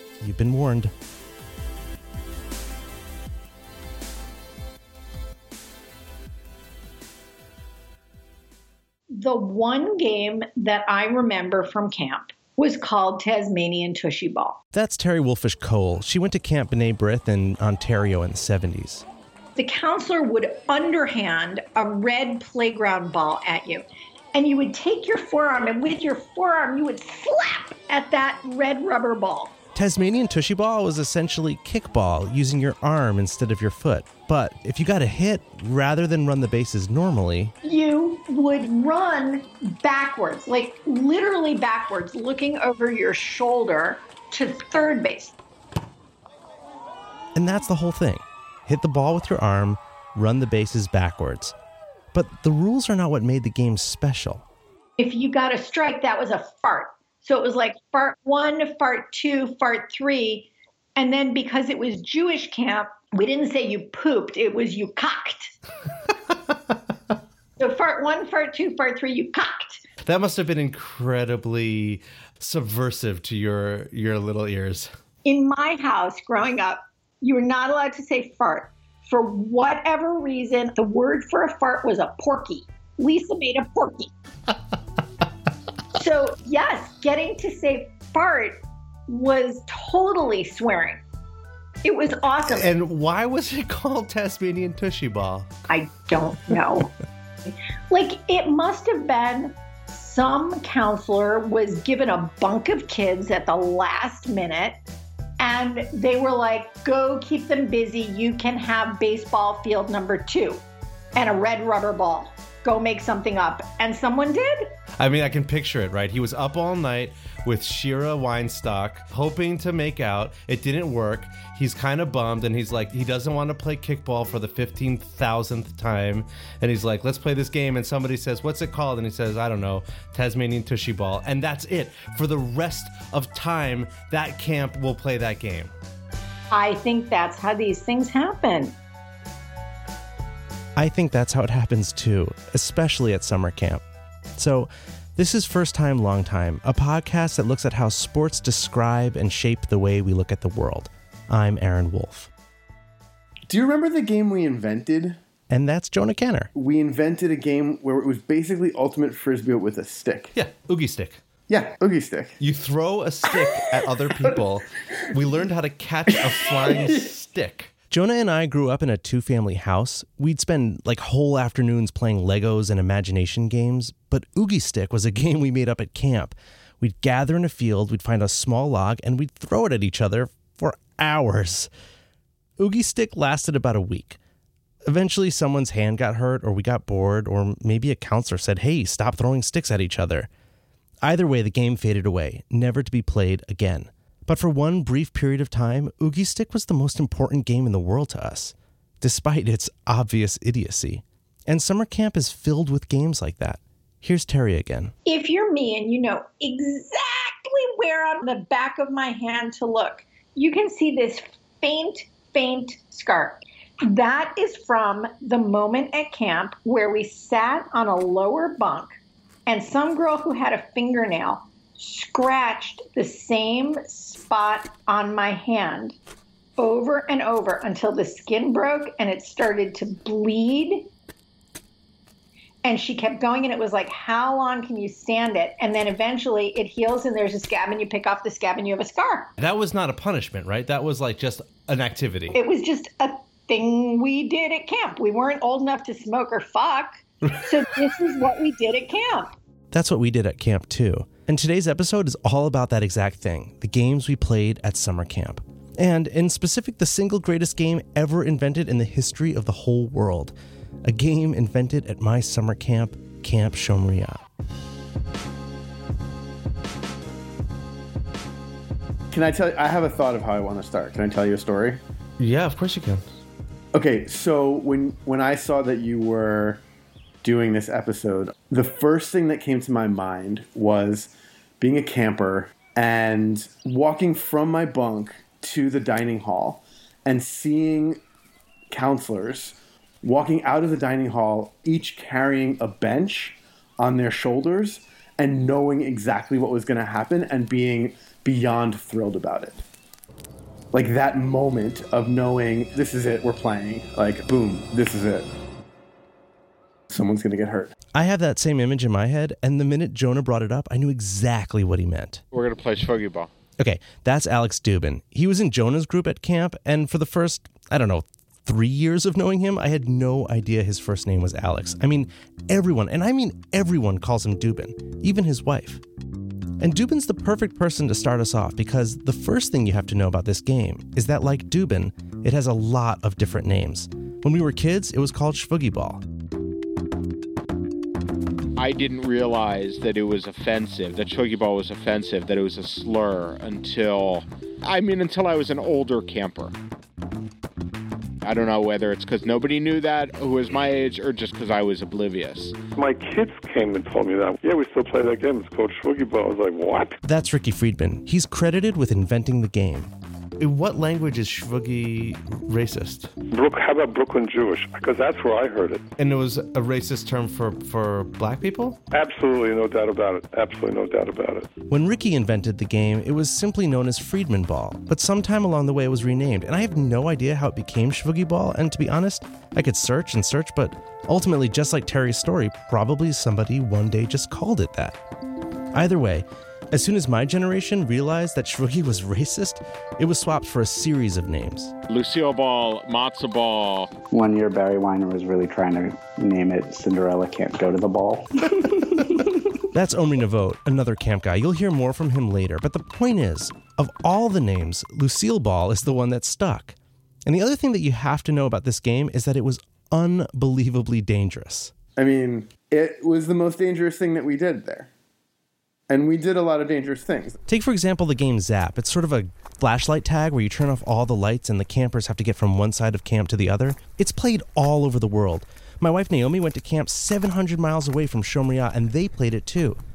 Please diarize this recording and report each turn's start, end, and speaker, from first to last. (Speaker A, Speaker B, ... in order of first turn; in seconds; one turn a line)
Speaker A: 0.2-0.9
Speaker B: 9.2-14.6
Speaker A: 14.7-19.0
Speaker B: 19.6-29.5
Speaker A: 29.7-37.5
Speaker B: 37.6-45.3
Speaker A: 47.3-51.5
Speaker A: 52.1-54.4
Speaker B: 55.0-65.5
Speaker B: 67.6-69.8
Speaker C: 70.0-74.9
Speaker B: 75.2-84.1
Speaker B: 85.9-91.0
Speaker B: 91.8-92.7
Speaker C: 92.5-95.5
Speaker B: 95.7-96.9
Speaker B: 97.5-104.8
Speaker B: 105.4-110.6
Speaker B: 111.2-114.7
Speaker C: 115.0-135.7
Speaker B: 136.5-138.7
Speaker A: 140.8-143.8
Speaker A: 144.4-152.3
Speaker D: 153.5-155.2
Speaker A: 155.5-156.5
Speaker D: 156.5-160.3
Speaker C: 160.3-161.2
Speaker D: 161.5-162.4
Speaker C: 162.4-167.7
Speaker D: 163.3-164.4
Speaker D: 166.1-167.1
Speaker A: 167.9-181.7
Speaker A: 182.6-184.2
Speaker A: 184.8-190.3
Speaker A: 191.0-204.9
Speaker B: 205.1-218.9
Speaker B: 219.5-226.0
Speaker B: 226.6-230.9
Speaker B: 232.6-239.3
Speaker C: 239.4-242.4
Speaker B: 242.3-249.3
Speaker A: 249.7-264.2
Speaker D: 269.1-271.8
Speaker C: 272.2-273.0
Speaker D: 273.7-276.6
Speaker D: 277.2-288.0
Speaker D: 288.7-299.6
Speaker D: 300.7-305.3
Speaker D: 306.9-307.7
Speaker A: 307.9-312.2
Speaker E: 312.3-313.3
Speaker A: 313.6-325.8
Speaker A: 326.6-336.0
Speaker E: 338.6-346.5
Speaker E: 348.2-352.6
Speaker F: 352.8-356.9
Speaker A: 357.0-359.9
Speaker C: 360.4-363.1
Speaker F: 363.3-365.8
Speaker C: 366.0-368.8
Speaker F: 368.9-371.5
Speaker A: 371.7-385.0
Speaker A: 385.7-391.7
Speaker E: 391.9-393.9
Speaker G: 394.1-399.3
Speaker A: 399.7-411.7
Speaker D: 412.0-414.9
Speaker D: 415.9-417.4
Speaker A: 417.5-429.8